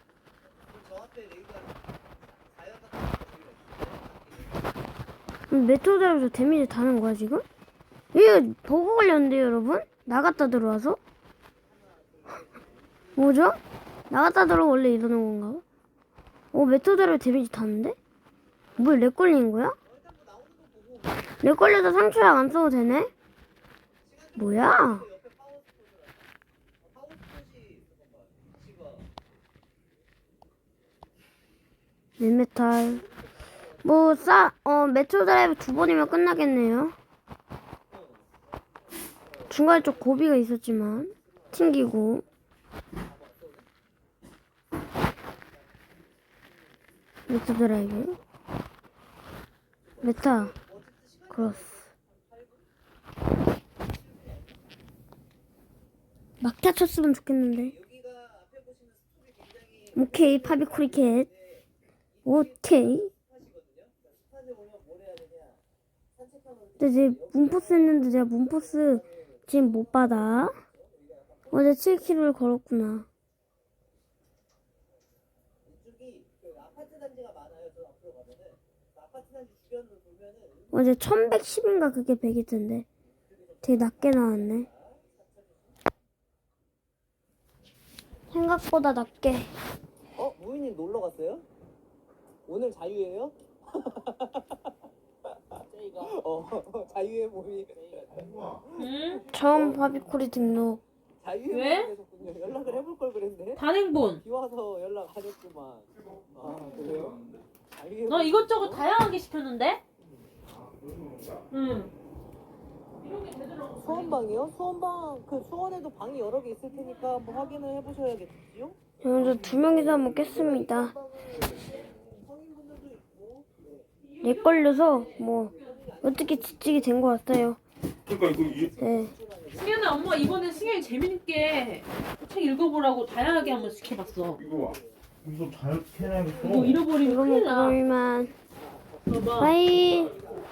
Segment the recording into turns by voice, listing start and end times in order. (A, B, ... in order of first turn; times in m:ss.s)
0:01.0-0:01.6 A
0:02.7-0:03.5 A
0:05.5-0:07.4 B
0:08.1-0:11.0 B
0:12.2-0:12.5 A
0:13.2-0:15.6 B
0:16.5-0:18.0 B
0:18.8-0:19.8 B
0:20.1-0:21.0 A
0:21.4-0:23.1 B
0:24.2-0:25.5 A
0:24.4-0:25.1 B
0:27.5-0:27.8 A
0:32.2-0:33.0 B
0:33.8-0:36.9 B
0:39.5-0:42.2 B
0:47.3-0:48.2 B
0:50.0-0:50.5 B
0:50.6-0:52.0 A
0:51.3-0:51.8 B
0:56.4-0:57.7 B
0:58.0-0:58.8 A
0:59.9-1:01.3 B
1:02.2-1:03.1 B
1:03.5-1:04.0 A
1:06.8-1:10.6 B
1:07.2-1:07.4 A
1:11.5-1:13.1 B
1:17.0-1:17.4 A
1:20.7-1:22.8 B
1:23.6-1:24.7 B
1:28.3-1:29.5 B
1:30.2-1:31.4 A
1:32.5-1:33.3 A
1:35.9-1:38.4 A
1:38.7-1:39.2 C
1:39.3-1:40.8 B
1:41.3-1:43.6 A
1:41.5-1:41.9 C
1:43.5-1:44.2 C
1:44.3-1:47.2 A
1:47.8-1:48.8 A
1:48.1-1:49.8 C
1:50.6-1:51.4 D
1:51.5-1:51.9 C
1:53.0-1:54.3 C
1:53.9-1:58.8 A
1:56.8-1:57.6 C
1:59.0-2:00.9 B
2:00.5-2:01.4 A
2:02.2-2:03.6 A
2:04.0-2:05.9 C
2:04.2-2:07.6 B
2:05.6-2:06.2 A
2:08.1-2:08.7 D
2:08.8-2:09.2 B
2:09.3-2:10.5 A
2:09.5-2:14.4 C
2:14.5-2:16.9 D
2:16.4-2:17.8 C
2:17.0-2:18.3 B
2:19.1-2:19.6 C
2:19.4-2:20.2 B